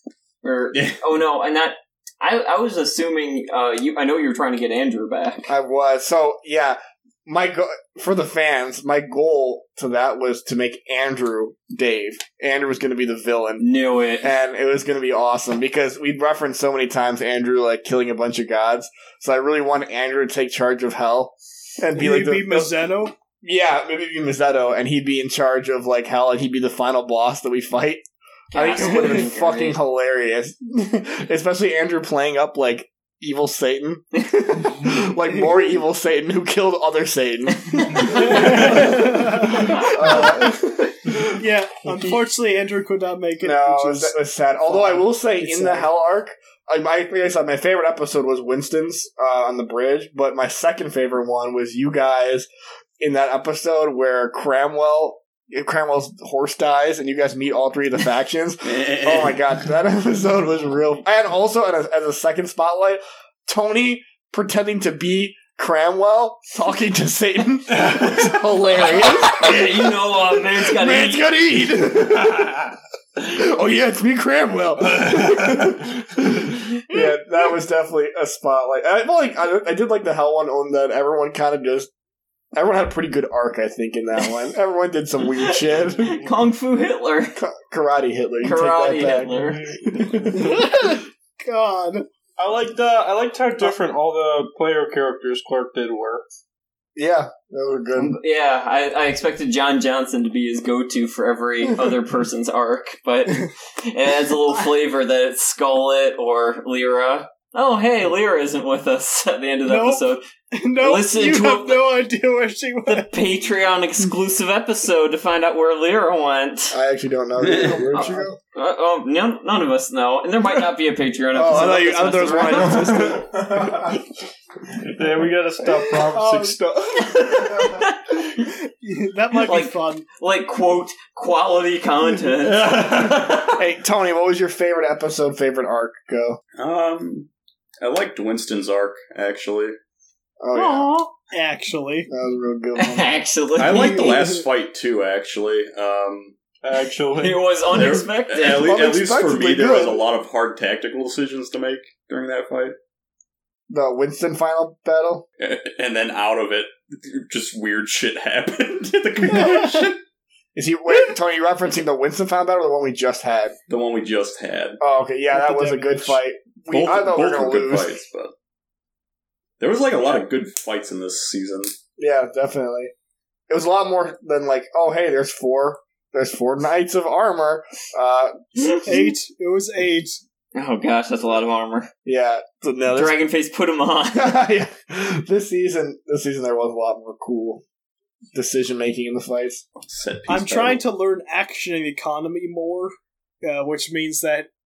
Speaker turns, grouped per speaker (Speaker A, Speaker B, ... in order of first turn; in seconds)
Speaker A: 0.4-5.5, 13.6-14.3, 28.5-29.8, 37.7-38.5, 39.9-40.1, 69.3-71.3, 85.7-87.4, 88.4-89.7, 98.0-110.2, 110.8-112.0, 112.8-116.8, 117.9-123.2, 127.0-128.4, 129.3-132.7, 140.5-141.1, 142.7-144.0, 147.2-148.7, 180.5-181.9, 182.9-184.4
Speaker B: 0.7-1.0, 58.6-59.6, 117.4-118.0, 136.6-137.3, 137.8-139.7, 143.6-146.3, 147.7-152.7, 155.4-160.0, 163.7-164.8, 166.7-168.3, 169.6-171.7, 189.8-190.8
Speaker C: 5.5-13.6, 14.2-22.8, 23.4-41.2, 43.4-52.5, 53.0-81.9, 82.5-86.2, 87.3-90.7, 97.0-98.2, 116.7-118.4, 121.3-124.0, 132.9-136.4, 140.4-141.0, 142.1-143.1, 148.6-150.0, 153.7-155.2, 160.5-163.6, 164.8-168.0, 172.0-172.9, 173.5-179.1, 182.0-183.2, 184.1-187.6, 188.3-189.6
Speaker D: 21.9-23.1, 38.1-40.5, 41.1-44.1, 44.6-45.9, 90.2-92.1, 109.6-113.1, 126.1-130.1, 141.2-142.1, 143.7-144.4, 165.3-166.2, 178.8-180.2, 190.3-194.5
Speaker E: 67.7-68.3, 75.0-75.7, 89.3-90.2, 92.4-96.2, 124.8-127.1, 132.7-133.4, 146.6-147.5